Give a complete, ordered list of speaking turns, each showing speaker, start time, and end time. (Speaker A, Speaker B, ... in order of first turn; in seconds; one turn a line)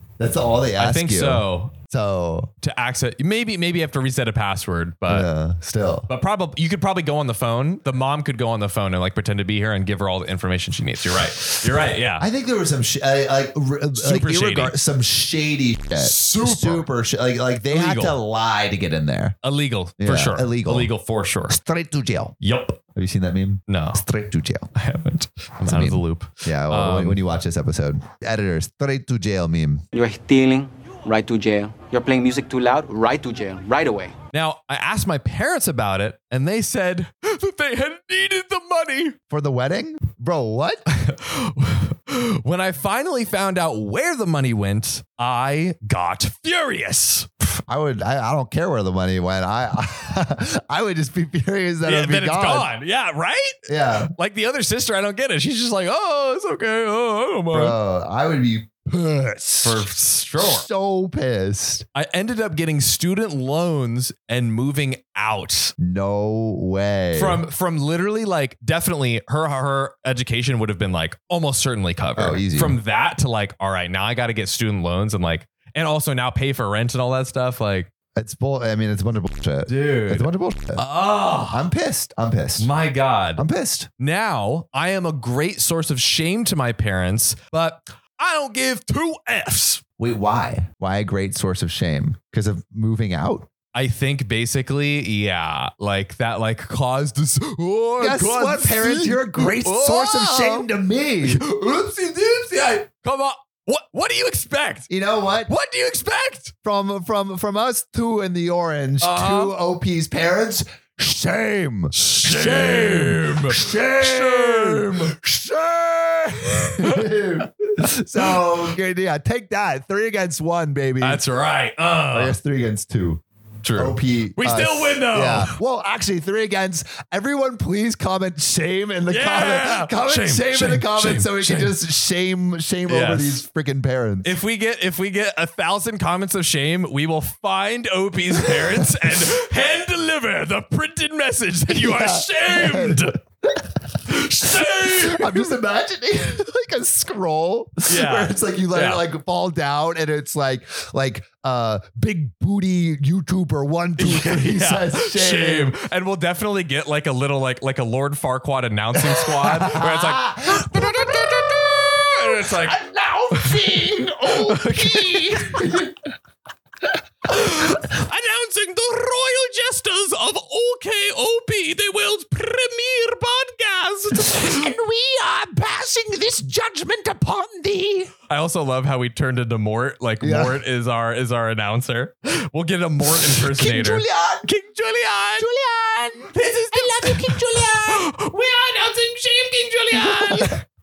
Speaker A: 0.2-2.5
Speaker B: 0.8-1.7
Speaker B: 2.6-5.3
Speaker A: 5.1-6.1
Speaker B: 6.1-12.2
Speaker A: 12.2-19.4
Speaker B: 14.0-14.7
Speaker B: 15.9-16.9
Speaker B: 17.7-18.2
Speaker B: 19.4-21.6
Speaker A: 20.0-20.9
Speaker A: 21.5-22.3
Speaker B: 22.4-22.8
Speaker A: 22.9-24.7
Speaker B: 23.7-24.0
Speaker B: 24.7-27.2
Speaker A: 25.6-29.8
Speaker C: 29.9-34.1
Speaker B: 34.3-39.2
Speaker A: 39.3-40.8
Speaker B: 40.9-47.3
Speaker A: 47.7-52.7
Speaker B: 51.8-57.8
Speaker A: 53.7-54.1
Speaker A: 57.5-59.8
Speaker B: 59.6-60.7
Speaker A: 60.4-61.9
Speaker B: 61.9-65.7
Speaker A: 65.8-67.4
Speaker B: 67.1-77.9
Speaker A: 72.2-72.8
Speaker A: 78.1-80.8
Speaker B: 79.7-81.7
Speaker A: 81.5-82.7
Speaker B: 82.6-83.4
Speaker A: 83.4-83.9
Speaker B: 84.0-89.8
Speaker A: 90.0-93.5
Speaker B: 93.7-100.7
Speaker A: 98.0-101.4
Speaker B: 101.2-104.9
Speaker A: 104.9-105.5
Speaker B: 105.5-106.5
Speaker A: 106.6-121.2
Speaker B: 109.0-109.5
Speaker B: 111.9-115.1
Speaker B: 116.7-117.1
Speaker B: 121.0-122.3
Speaker A: 122.1-123.2
Speaker B: 123.6-125.6
Speaker A: 123.8-134.3
Speaker B: 129.1-131.7
Speaker B: 132.9-133.4
Speaker B: 134.2-143.2
Speaker A: 138.3-139.3
Speaker A: 141.7-155.7
Speaker B: 144.0-145.5
Speaker B: 147.8-149.0
Speaker B: 154.0-162.8
Speaker A: 158.9-166.0
Speaker B: 163.3-165.8
Speaker A: 166.9-167.8
Speaker B: 167.3-174.7
Speaker A: 174.1-178.1
Speaker B: 178.3-185.5
Speaker A: 180.2-180.6
Speaker A: 183.1-184.5
Speaker A: 185.4-188.1
Speaker B: 186.3-190.6
Speaker A: 189.9-190.6